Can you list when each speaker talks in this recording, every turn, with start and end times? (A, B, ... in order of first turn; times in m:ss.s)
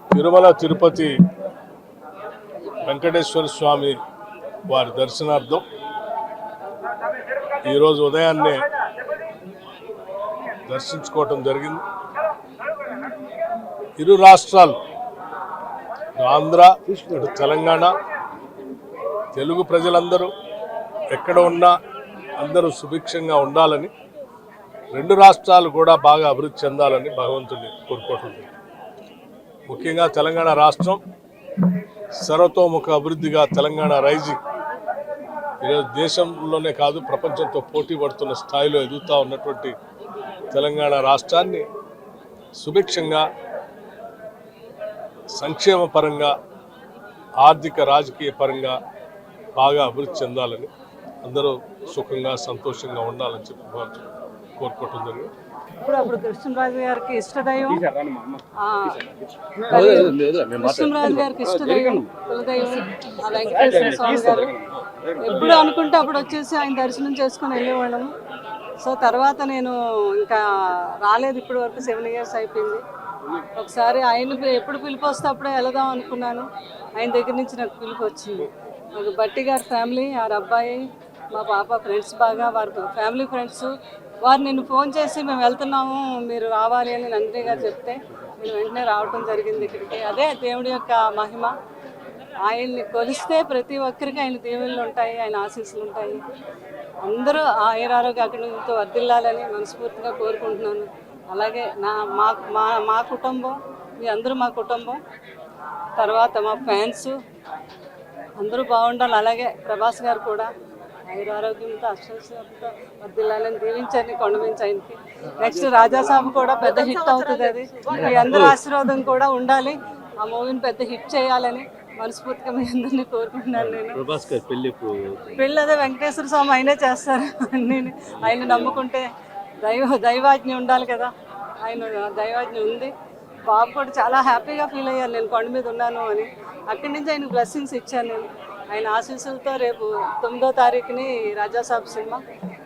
0:00.1-0:01.1 A
0:02.8-0:04.0 A
0:04.7-0:05.6 A
0:07.6-0:08.6 A
0:10.7-0:11.8 A
0:14.0-0:14.8 A
0:16.2-0:17.9 A
0:19.3-0:20.3 A
0:21.1-0:21.7 A
0:22.4-0:23.9 A
0:24.9-0:28.5 A
0:29.7-0:31.0 A
0:32.2-0:34.4 A
0:35.6-0:39.7 A
0:40.5-0:41.6 A
0:42.6-0:43.2 A
0:45.3-0:46.3 A
0:47.4-0:48.8 A
0:49.6-0:50.7 A
0:51.2-0:54.0 A
0:54.6-0:55.3 A
0:55.8-0:57.8 B
0:57.9-0:58.4 C
0:58.6-0:59.0 B
0:59.7-1:04.5 B
0:59.7-1:00.8 C
1:03.6-1:04.4 C
1:05.2-1:08.1 B
1:08.8-1:10.4 B
1:11.0-1:12.8 B
1:13.6-1:16.4 B
1:17.0-1:23.7 B
1:24.2-1:31.5 B
1:32.4-1:36.2 B
1:37.0-1:45.0 B
1:46.0-1:47.1 B
1:48.4-1:50.5 B
1:51.1-2:04.0 B
1:57.9-1:58.5 C
2:03.6-2:05.4 C
2:05.3-2:09.1 B
2:08.2-2:08.8 C
2:09.6-2:11.1 B
2:11.6-2:12.9 B
2:13.4-2:22.2 B